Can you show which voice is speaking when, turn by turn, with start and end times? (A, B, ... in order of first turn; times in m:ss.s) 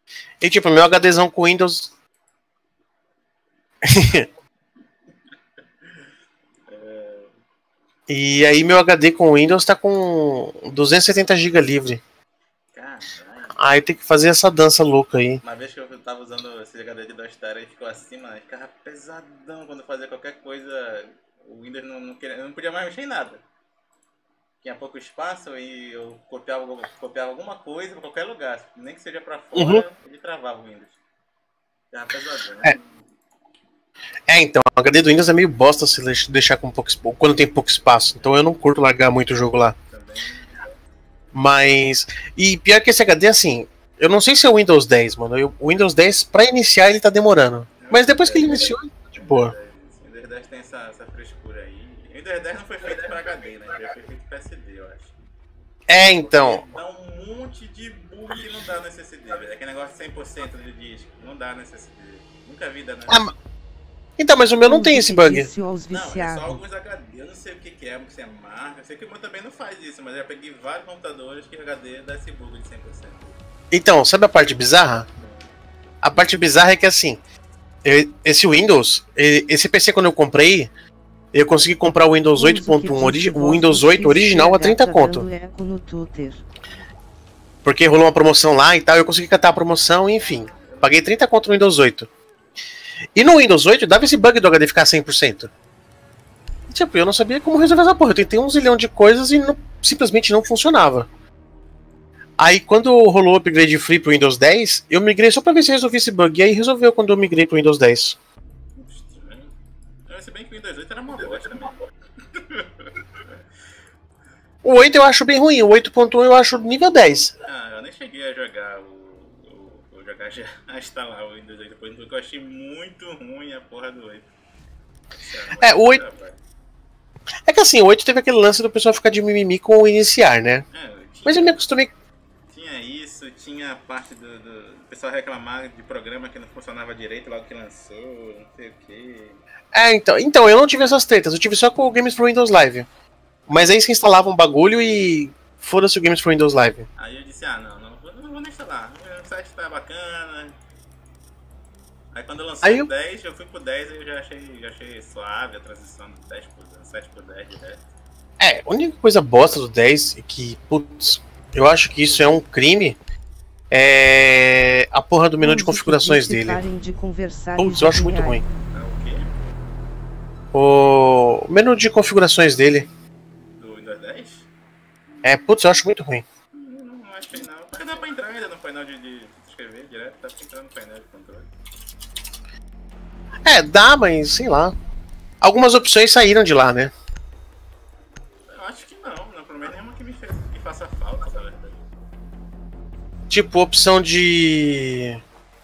0:00.4-0:01.9 A
0:03.8-0:04.3 A
0:05.8-0:06.1 B
0:06.7-0:07.3 B
0:08.1-0:12.0 A
0:12.7-0:13.6 B
0:13.6-0:15.4 A
0:15.4-0:23.4 B
0:24.6-0:31.0 B
0:29.5-0:29.8 A
0:31.9-0:33.1 B
0:34.3-0:39.8 A
0:38.1-0:38.4 B
0:39.9-0:40.8 B
0:41.3-0:49.5 A
0:47.8-0:55.1 B
0:55.9-0:56.6 A
0:56.0-1:03.3 B
1:04.2-1:05.5 A
1:04.6-1:06.6 C
1:05.9-1:13.4 B
1:13.7-1:15.0 A
1:15.2-1:15.5 B
1:16.0-1:17.2 A
1:17.8-1:20.7 A
1:21.3-1:25.3 A
1:22.3-1:26.4 C
1:27.6-1:32.1 A
1:30.2-1:31.1 B
1:33.1-1:35.5 A
1:36.7-1:41.1 A
1:42.4-1:48.2 A
1:48.8-1:49.5 B
1:50.0-1:53.4 B
1:54.6-1:57.3 A
1:57.4-2:04.3 B
2:05.2-2:06.4 B
2:05.6-2:06.0 A
2:07.5-2:10.6 A
2:10.7-2:11.6 B
2:11.2-2:11.9 A
2:12.5-2:19.4 B
2:19.7-2:22.9 A
2:23.5-2:26.8 A
2:27.0-2:30.5 B
2:32.1-2:37.8 B
2:32.6-2:32.9 A
2:38.4-2:43.0 A
2:43.7-2:46.6 A
2:45.4-2:48.4 C
2:47.6-2:48.4 A
2:48.7-2:49.3 B
2:50.5-2:52.9 A
2:53.6-2:54.5 B
2:55.2-2:56.2 A
2:56.5-3:01.5 B
3:03.4-3:04.7 A
3:05.4-3:06.9 A
3:08.5-3:11.8 B
3:13.3-3:15.2 A